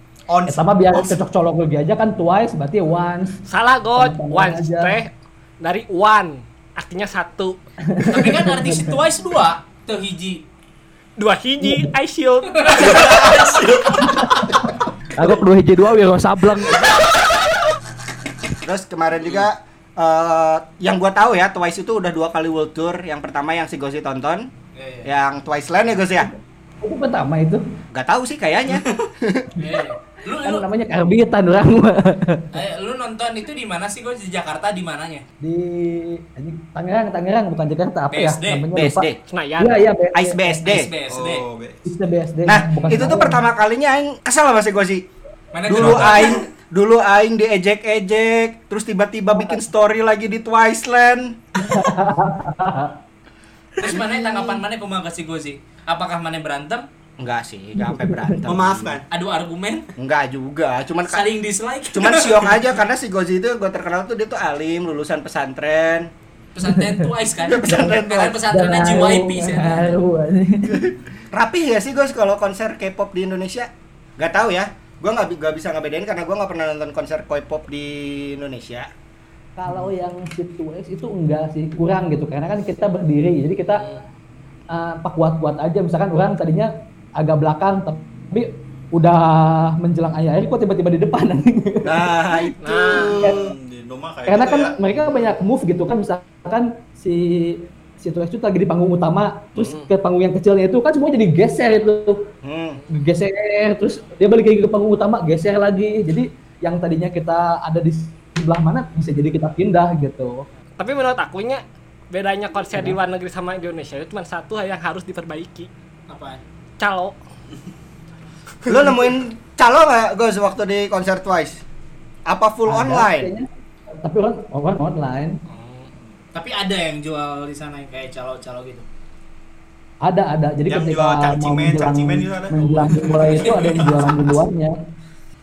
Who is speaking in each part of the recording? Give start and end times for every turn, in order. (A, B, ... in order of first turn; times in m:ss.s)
0:00.3-0:01.2 A
0:00.5-0:03.4 B
0:03.5-0:07.6 C
0:04.0-0:05.0 B
0:07.9-0:09.0 B
0:08.0-0:10.4 D
0:11.2-0:13.2 C
0:11.6-0:11.9 B
0:12.5-0:14.1 D
0:12.8-0:14.6 A
0:15.2-0:16.9 B
0:18.6-0:24.5 E
0:24.8-0:25.1 D
0:25.0-0:26.3 E
0:26.8-0:27.6 B
0:27.9-0:29.5 E
0:29.6-0:30.6 D
0:30.4-0:32.5 B
0:32.5-0:35.2 D
0:35.4-0:39.1 B
0:38.1-0:38.7 D
0:38.7-0:39.2 E
0:39.3-0:39.9 C
0:39.6-0:40.7 B
0:40.1-0:40.9 E
0:40.6-0:41.4 D
0:41.1-0:41.9 A
0:41.9-0:43.4 B
0:42.4-0:45.1 E
0:45.5-0:46.4 D
0:45.7-0:51.4 E
0:45.7-0:46.3 A
0:51.6-0:53.0 B
0:53.8-0:56.9 D
0:53.9-0:54.6 E
0:57.2-0:59.0 E
0:57.8-0:58.4 B
0:58.5-0:59.0 A
0:59.1-0:59.9 D
1:00.0-1:01.2 E
1:01.1-1:02.7 D
1:01.9-1:06.1 E
1:06.6-1:10.0 D
1:06.6-1:07.1 B
1:07.4-1:08.4 E
1:08.5-1:10.9 B
1:11.3-1:18.9 E
1:19.6-1:23.8 B
1:23.7-1:24.0 C
1:24.7-1:32.0 B
1:31.8-1:33.4 E
1:32.6-1:33.4 C
1:32.9-1:34.8 A
1:33.2-1:33.5 B
1:34.3-1:42.2 B
1:39.6-1:39.8 E
1:42.4-1:42.8 E
1:42.9-1:50.5 B
1:50.8-1:55.7 C
1:56.1-1:56.4 D
1:56.8-1:57.2 C
1:58.7-2:01.6 E
2:02.3-2:03.3 E
2:02.7-2:03.5 B
2:04.0-2:05.4 B
2:05.5-2:05.9 C
2:06.3-2:08.8 D
2:10.0-2:14.8 B
2:10.7-2:13.9 A
2:12.6-2:14.2 D